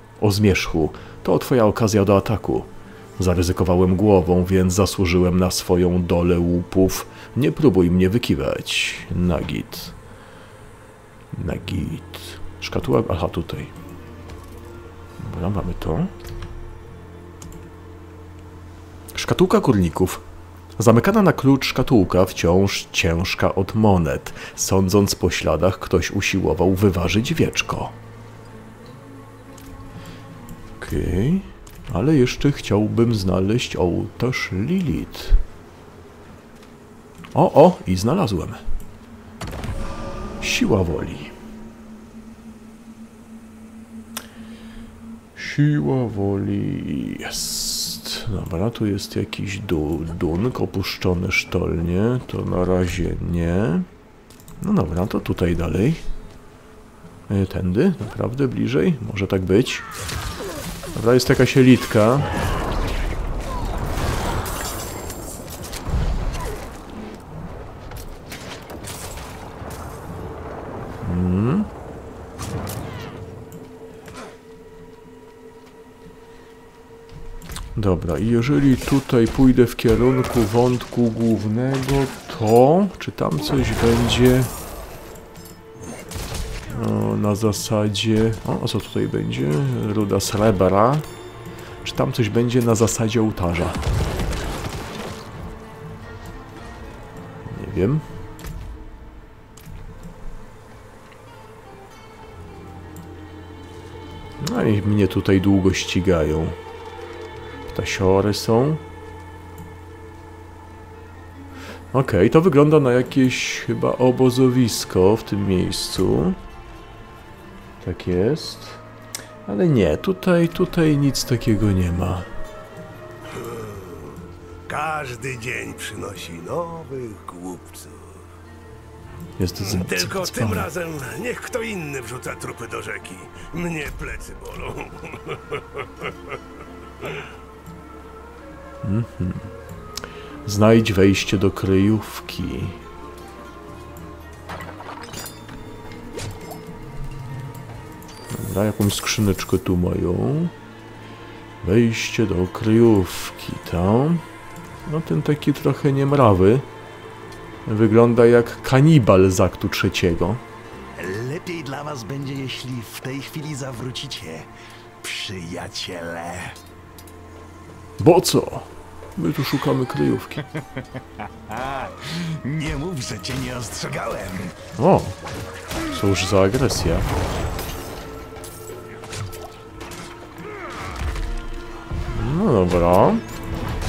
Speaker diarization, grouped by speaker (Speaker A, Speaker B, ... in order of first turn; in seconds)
Speaker A: 0.2-9.9, 11.3-13.7, 15.2-16.1, 19.1-20.2, 20.8-27.9, 30.8-35.4, 37.3-38.6, 40.4-41.3, 45.4-53.9, 54.6-56.0, 57.3-59.9, 61.0-62.3, 71.0-71.7, 77.8-84.5, 86.7-91.0, 91.8-93.8, 97.5-98.0, 104.4-106.6, 107.7-108.8, 111.9-116.4, 117.8-118.8, 119.5-122.3, 129.4-130.7, 138.8-139.5, 140.4-142.8, 148.3-150.5, 151.6-154.2, 154.9-156.7, 157.7-160.4, 168.0-170.4, 174.8-175.2, 175.9-177.1, 182.1-183.2
Speaker B: 123.3-124.1, 124.7-128.2, 129.6-135.3
Speaker C: 161.0-164.5, 165.0-166.6, 171.7-171.9, 172.4-174.5